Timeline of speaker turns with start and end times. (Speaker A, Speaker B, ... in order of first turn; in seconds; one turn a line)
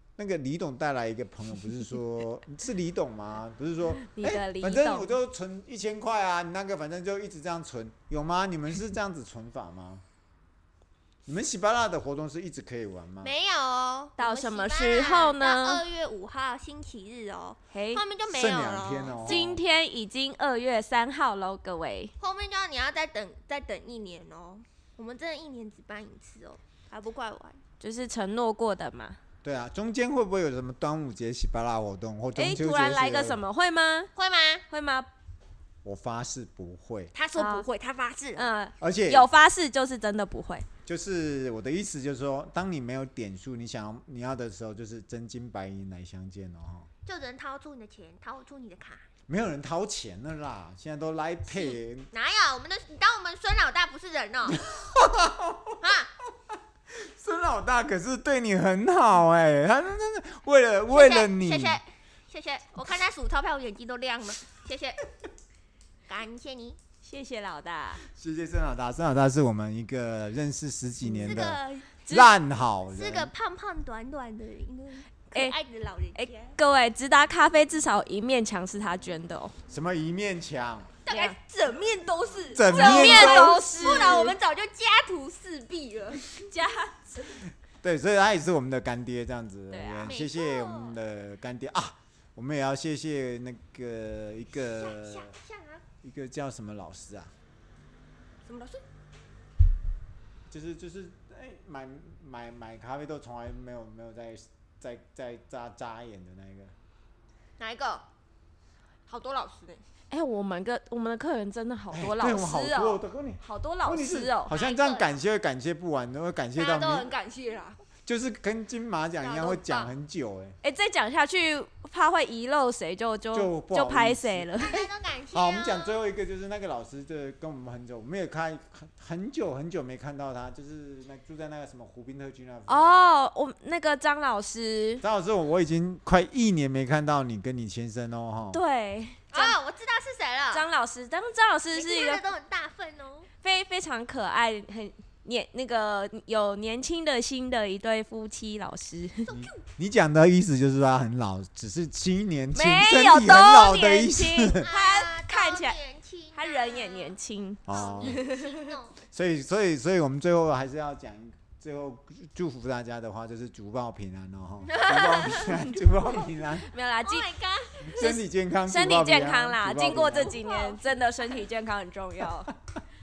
Speaker A: 0.2-10.0
Speaker B: 4.1-5.1
Speaker A: 11.2-13.3
Speaker C: 13.2-19.5
Speaker B: 14.2-15.8
Speaker B: 17.7-18.0
Speaker A: 18.3-19.6
Speaker B: 19.2-22.1
Speaker C: 22.2-27.6
Speaker B: 27.8-29.2
Speaker A: 29.4-33.4
Speaker B: 32.4-34.1
Speaker C: 34.1-34.6
Speaker B: 34.7-35.1
Speaker A: 35.8-37.1
Speaker C: 37.1-38.5
Speaker B: 37.4-37.7
Speaker B: 38.4-40.7
Speaker A: 38.8-39.3
Speaker A: 40.9-46.9
Speaker C: 47.0-49.0
Speaker A: 49.3-52.1
Speaker C: 51.5-54.6
Speaker A: 54.6-55.8
Speaker C: 55.8-56.1
Speaker A: 56.9-61.8
Speaker C: 60.9-65.1
Speaker C: 66.1-66.8
Speaker B: 67.0-68.0
Speaker A: 68.0-73.3
Speaker B: 71.0-71.5
Speaker C: 71.2-72.0
Speaker B: 72.1-72.3
Speaker C: 72.8-76.6
Speaker B: 76.2-79.5
Speaker A: 79.7-80.9
Speaker C: 81.0-86.5
Speaker B: 81.1-81.3
Speaker A: 82.5-84.1
Speaker B: 82.7-84.4
Speaker B: 86.5-87.2
Speaker A: 87.8-95.4
Speaker B: 89.7-90.2
Speaker C: 90.0-91.0
Speaker C: 94.5-95.8
Speaker A: 96.0-97.3
Speaker C: 98.5-98.8
Speaker A: 100.5-106.8
Speaker C: 107.6-108.1
Speaker C: 109.1-109.8
Speaker B: 110.1-114.5
Speaker A: 111.9-117.1
Speaker C: 114.5-115.2
Speaker C: 116.6-117.8
Speaker A: 118.1-120.6
Speaker C: 119.2-119.9
Speaker B: 120.6-124.8
Speaker A: 123.3-132.9
Speaker C: 124.6-126.0
Speaker B: 132.7-135.0
Speaker A: 135.0-138.6
Speaker B: 138.5-139.6
Speaker C: 139.3-140.7
Speaker B: 140.5-142.2
Speaker C: 141.7-143.3
Speaker B: 143.4-149.3
Speaker C: 149.2-149.6
Speaker A: 149.3-154.7
Speaker B: 152.5-155.8
Speaker C: 154.6-157.2
Speaker B: 156.3-158.7
Speaker A: 157.7-158.2
Speaker C: 157.7-159.0
Speaker A: 159.1-166.7
Speaker C: 164.7-166.3
Speaker B: 166.6-167.3
Speaker C: 167.0-168.2
Speaker A: 167.8-170.4
Speaker B: 168.0-172.5
Speaker C: 170.1-171.4